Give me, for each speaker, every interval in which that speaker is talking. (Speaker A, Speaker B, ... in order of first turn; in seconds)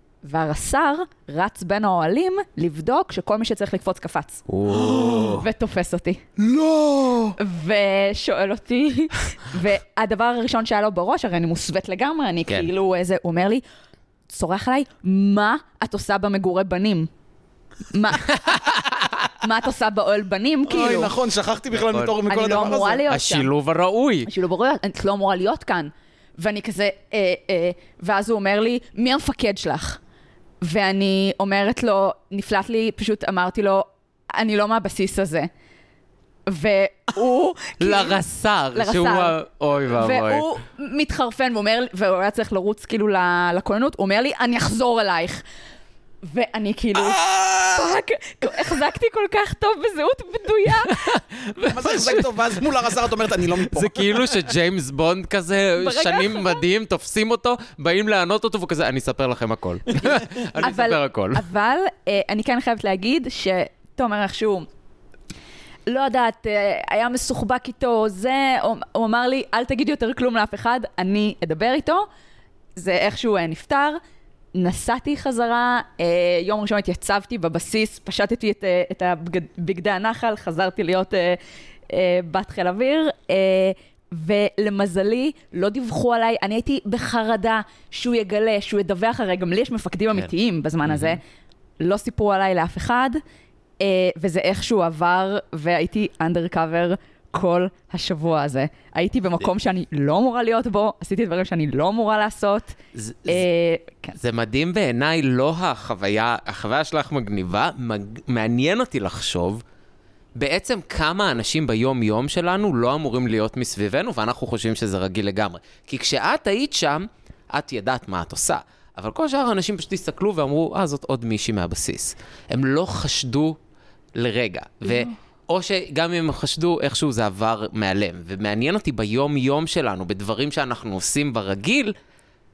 Speaker A: 0.2-4.5, 5.1-6.2, 7.4-13.6, 14.3-17.1, 17.9-18.6, 19.4-21.1, 22.3-23.5, 24.3-30.0, 30.6-35.5, 36.5-38.2, 38.7-39.4, 39.9-45.4, 46.2-51.1, 55.8-56.6, 60.6-64.7, 65.9-72.1, 72.8-74.0, 74.5-91.2, 91.8-93.2, 93.8-104.2, 124.9-125.1
Speaker B: 4.5-5.5, 21.8-22.2, 23.1-24.3, 37.8-40.5, 50.9-52.3, 53.6-61.4, 90.9-91.2, 103.0-103.4, 104.2-109.6, 110.4-123.6, 124.2-131.9
Speaker C: 4.7-5.4, 6.4-7.4, 20.7-23.1, 47.2-47.7, 51.7-54.4